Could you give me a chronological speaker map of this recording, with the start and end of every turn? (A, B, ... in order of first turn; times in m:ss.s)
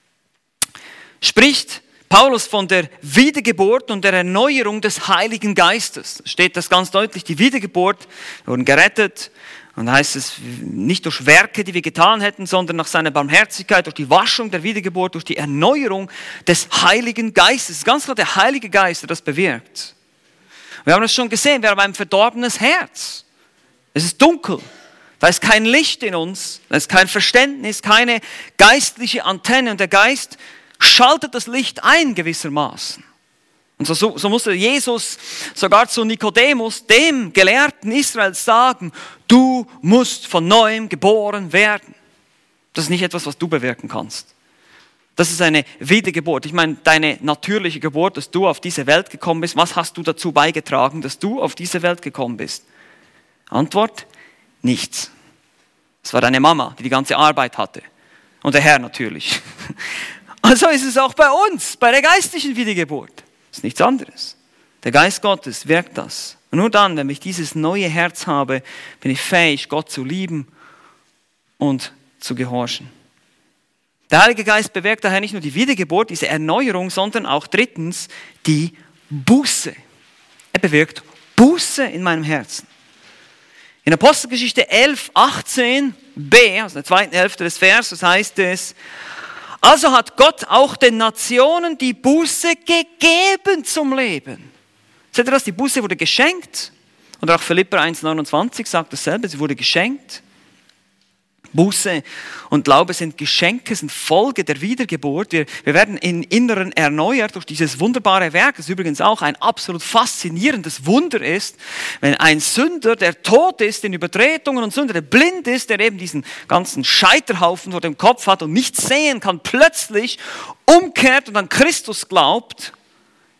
0:01.2-0:19.9 A
0:20.8-0:23.2 A
0:23.9-0:24.6 A
0:25.2-0:33.0 A
0:33.8-0:41.9 A
0:42.7-0:44.3 A
0:45.2-0:52.6 A
0:53.5-0:54.1 A
0:54.6-0:55.1 A
0:56.0-0:57.8 A
0:58.4-0:59.7 A
1:00.4-1:10.5 A
1:11.6-1:12.9 A
1:14.1-1:19.8 A
1:20.5-1:22.7 A
1:23.8-1:28.8 A
1:29.6-1:34.5 A
1:35.1-1:40.2 A
1:41.5-2:02.7 A